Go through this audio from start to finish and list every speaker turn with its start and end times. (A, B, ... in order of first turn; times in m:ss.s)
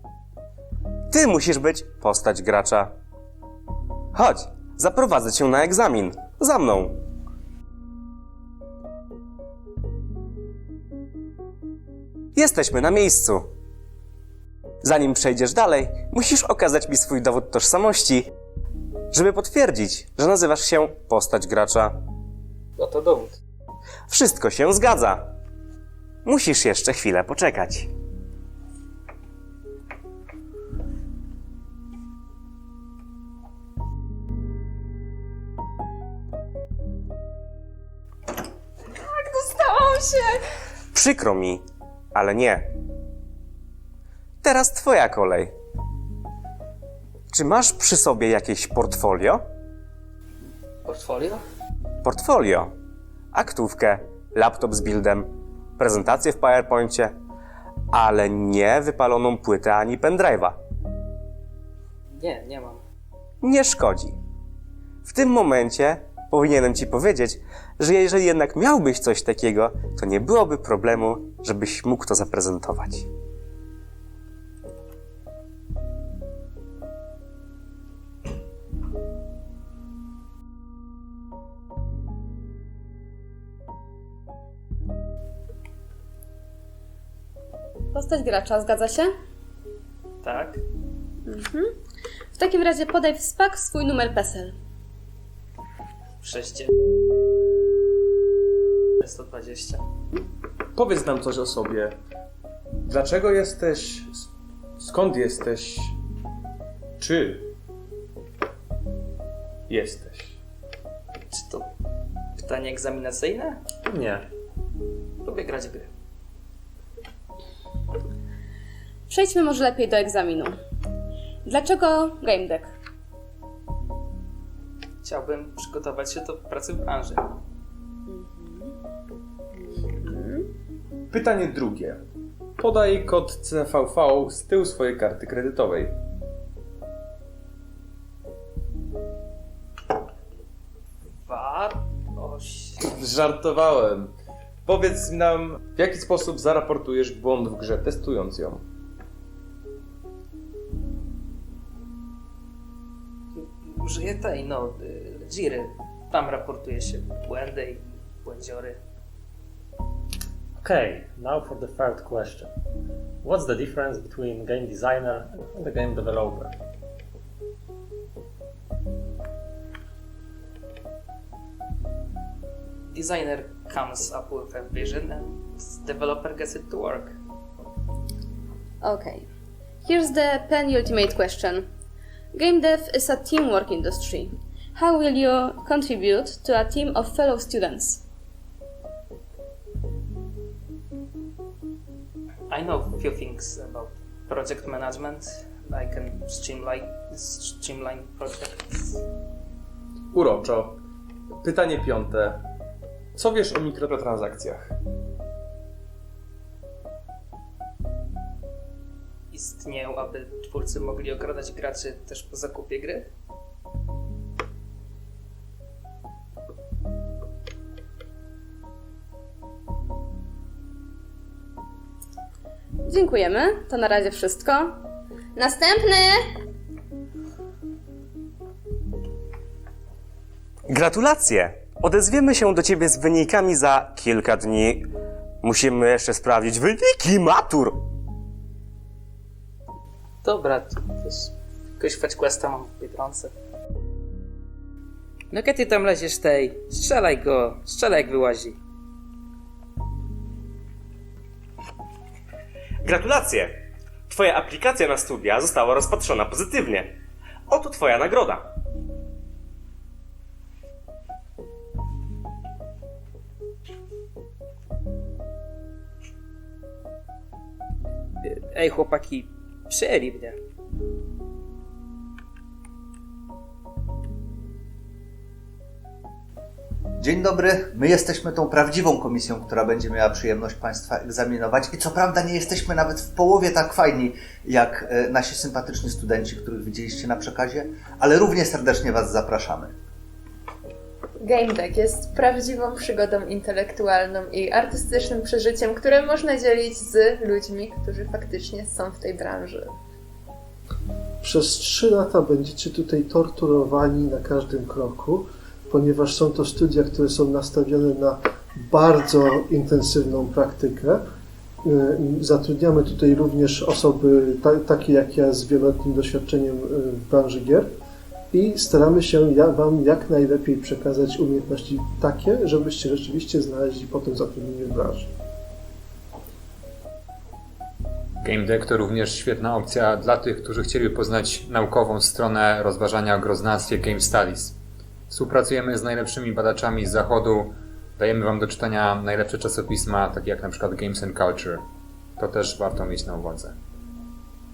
0:01.1-0:02.9 A
0:04.2-0:07.0 A
0:12.4-0:13.5 A
0:14.8-0:18.3 A
0:19.1-0:22.0 A
0:24.1-0:25.2 A
0:26.2-0:27.9 A
0:39.2-0:40.3 B
0:40.9-0:41.6 A
0:42.1-0:42.6 A
0:44.4-0:45.5 A
0:47.3-0:49.4 A
0:50.8-0:51.4 C
0:52.0-0:52.7 A
0:53.3-0:57.1 A
0:57.9-1:00.6 A
1:02.2-1:02.8 C
1:03.4-1:04.2 A
1:05.0-1:13.1 A
1:27.9-1:29.1 D
1:30.2-1:30.6 C
1:31.2-1:31.7 D
1:32.3-1:34.6 D
1:36.2-1:36.7 C
1:39.0-1:39.8 C
1:40.8-1:41.9 E
1:42.8-1:44.1 E
1:44.8-1:46.0 E
1:47.0-1:47.5 E
1:49.7-1:50.4 E
1:51.3-1:51.6 C
1:52.4-1:53.6 C
1:53.9-1:54.2 F
1:55.2-1:55.9 C
1:59.1-2:00.6 D
2:01.4-2:02.7 D
2:05.0-2:07.3 C
2:08.1-2:08.7 D
2:09.6-2:10.5 D
2:11.1-2:12.0 E
2:12.6-2:16.0 E
2:21.3-2:22.8 C
2:22.8-2:24.1 E
2:24.6-2:28.6 E
2:33.3-2:38.8 C
2:40.6-2:42.5 G
2:43.2-2:46.5 G
2:52.9-2:57.2 C
2:58.8-2:59.2 D
2:59.8-3:01.7 D
3:02.3-3:08.0 D
3:12.5-3:19.0 C
3:20.1-3:20.8 E
3:21.4-3:22.4 E
3:23.2-3:24.8 E
3:29.3-3:33.1 C
3:42.8-3:44.8 D
3:45.4-3:46.2 D
3:50.7-3:54.8 A
3:55.4-3:57.8 A
4:00.2-4:03.3 C
4:05.3-4:08.6 C
4:12.8-4:13.5 A
4:14.1-4:16.9 A
4:17.5-4:18.4 A
4:28.2-4:30.4 C
4:37.0-4:49.7 H
4:51.2-4:59.7 B
5:01.2-5:11.0 I
5:11.6-5:17.7 I
5:18.3-5:25.1 I
5:28.2-5:34.6 F
5:35.1-5:41.6 F
5:42.2-5:43.5 F